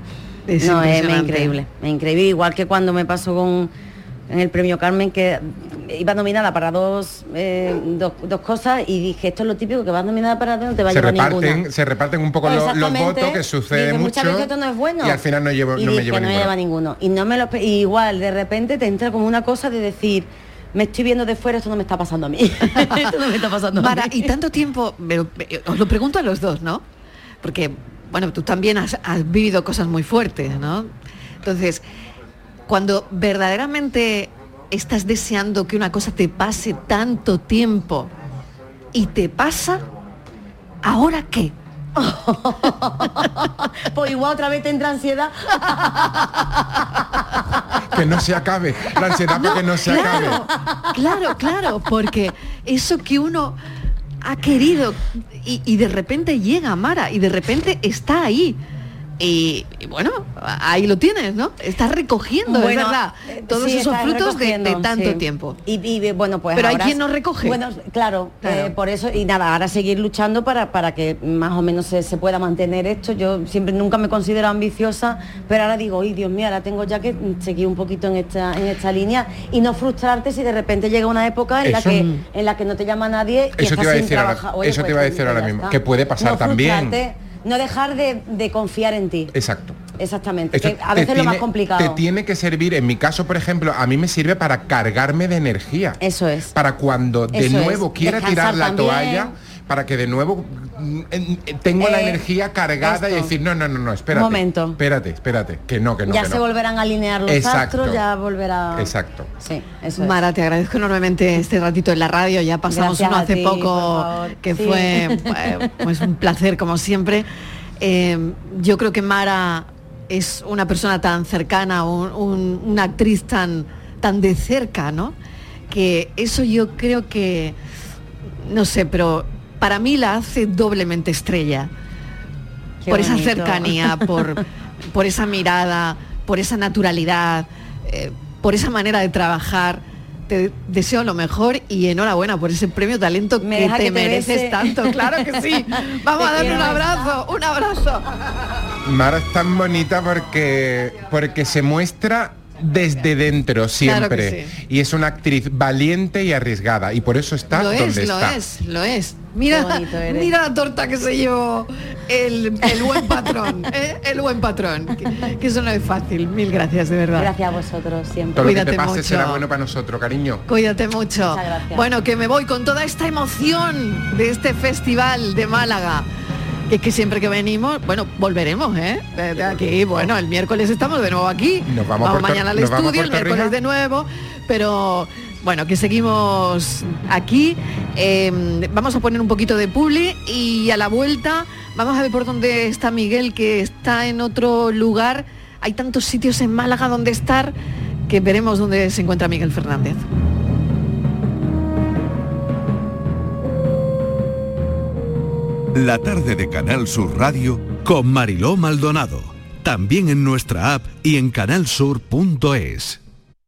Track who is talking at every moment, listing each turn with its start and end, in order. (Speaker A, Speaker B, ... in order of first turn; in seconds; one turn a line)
Speaker A: 0.5-1.5
Speaker B: 0.6-3.7
Speaker B: 4.3-11.6
Speaker C: 10.9-16.5
Speaker B: 12.4-15.2
Speaker B: 15.8-24.1
Speaker A: 23.8-26.8
Speaker A: 27.4-30.9
Speaker A: 31.4-31.8
Speaker A: 32.7-38.1
Speaker A: 38.9-39.8
Speaker A: 40.8-41.5
Speaker B: 42.0-46.5
Speaker C: 47.9-50.4
Speaker A: 49.3-53.5
Speaker A: 54.2-58.6
Speaker A: 59.2-65.6
Speaker B: 62.5-89.3
Speaker A: 66.5-67.6
Speaker A: 68.4-68.7
Speaker C: 81.6-82.1
Speaker C: 83.6-87.0
Speaker C: 89.3-89.8
Speaker B: 90.0-92.0
Speaker C: 90.5-96.0
Speaker B: 96.0-96.5
Speaker C: 96.5-106.4
Speaker B: 97.3-99.3
Speaker B: 101.8-102.2
Speaker B: 102.8-103.3
Speaker B: 104.1-104.8
Speaker B: 106.1-110.1
Speaker C: 107.3-108.0
Speaker C: 108.8-109.3
Speaker A: 110.0-117.2
Speaker B: 112.7-115.5
Speaker A: 117.8-125.1
Speaker A: 125.7-127.5
Speaker A: 128.4-131.7
Speaker B: 132.8-134.0
Speaker A: 132.9-148.1
Speaker B: 143.4-145.5
Speaker B: 146.2-147.1
Speaker C: 148.8-158.4
Speaker A: 153.8-154.5
Speaker A: 157.5-167.3
Speaker B: 159.5-160.3
Speaker B: 167.1-168.4
Speaker C: 168.4-170.4
Speaker A: 168.4-169.4
Speaker A: 170.5-176.1
Speaker B: 171.2-171.8
Speaker A: 176.7-197.5
Speaker C: 181.7-183.6
Speaker A: 198.1-200.0
Speaker D: 205.7-213.0